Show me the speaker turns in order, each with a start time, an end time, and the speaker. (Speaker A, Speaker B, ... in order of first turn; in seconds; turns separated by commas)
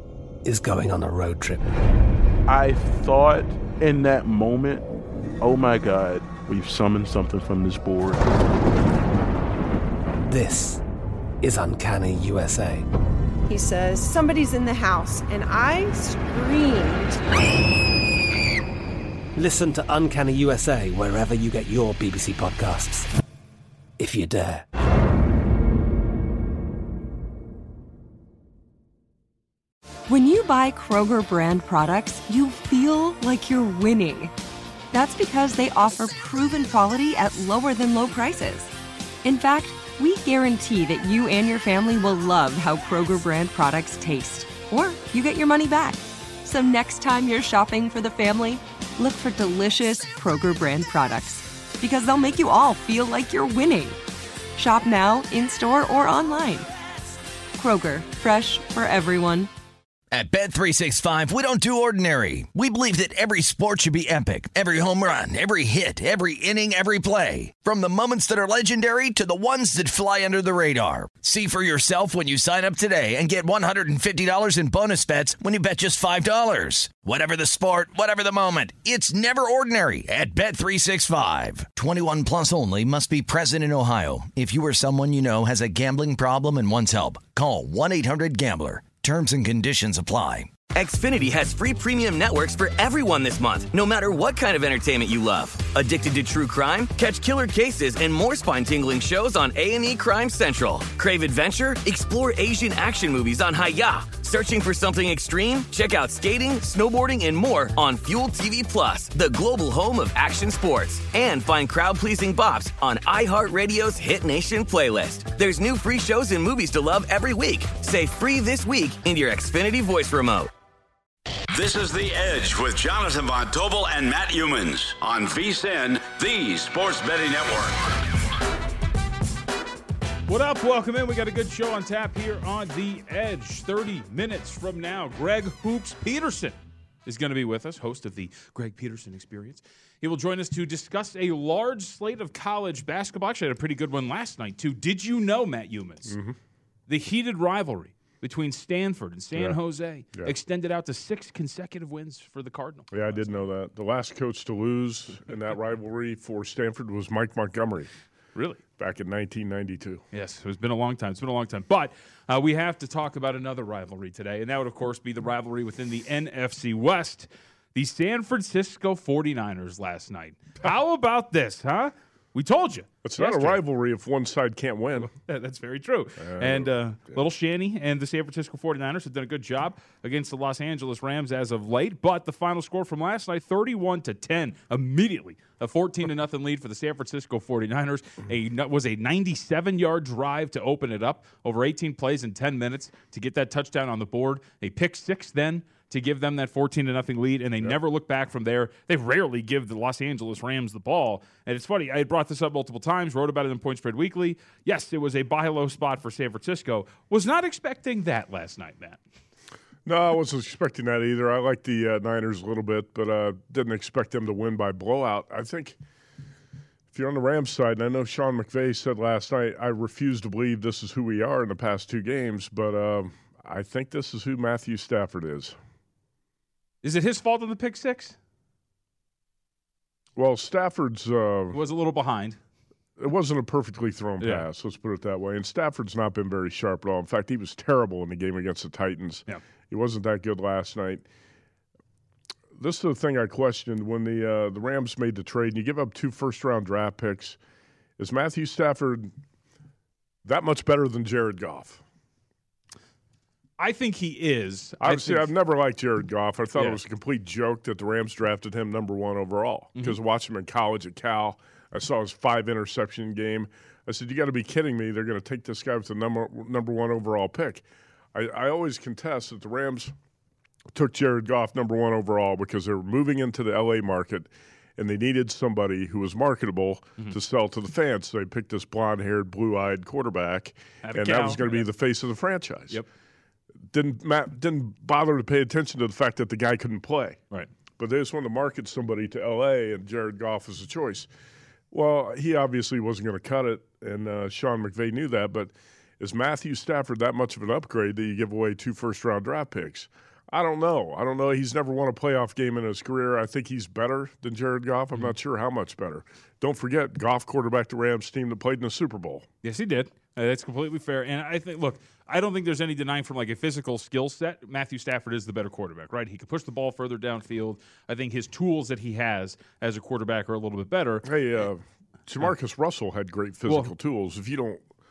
Speaker A: 0.4-1.6, Speaker B: 2.5-4.9, Speaker B: 5.4-8.2, Speaker A: 10.3-10.8, Speaker A: 11.4-12.9, Speaker C: 13.5-17.2, Speaker A: 19.4-23.1, Speaker A: 24.0-24.6, Speaker D: 30.1-34.3, Speaker D: 34.9-38.7, Speaker D: 39.2-54.0, Speaker D: 54.5-56.7, Speaker D: 57.5-59.5, Speaker E: 60.1-90.5, Speaker F: 90.7-120.5, Speaker G: 121.5-128.1, Speaker H: 130.3-146.1, Speaker I: 146.1-146.4, Speaker H: 146.9-153.3, Speaker I: 152.9-157.9, Speaker H: 158.3-158.6, Speaker I: 158.8-160.0, Speaker H: 160.1-173.6, Speaker I: 173.0-175.1, Speaker H: 175.0-209.0, Speaker I: 176.2-177.2, Speaker I: 209.8-215.8, Speaker I: 216.9-225.6, Speaker H: 226.8-228.2, Speaker I: 230.2-231.6, Speaker H: 231.5-232.4, Speaker I: 233.0-241.0, Speaker H: 234.2-234.4, Speaker I: 242.5-247.4, Speaker I: 248.0-249.1, Speaker I: 250.2-251.8, Speaker H: 253.6-255.3, Speaker I: 254.8-269.9, Speaker I: 270.7-282.8, Speaker H: 280.8-281.6, Speaker I: 283.7-287.2, Speaker I: 287.8-291.1, Speaker I: 291.7-309.3, Speaker H: 309.4-321.2, Speaker I: 321.0-324.6, Speaker H: 323.5-323.7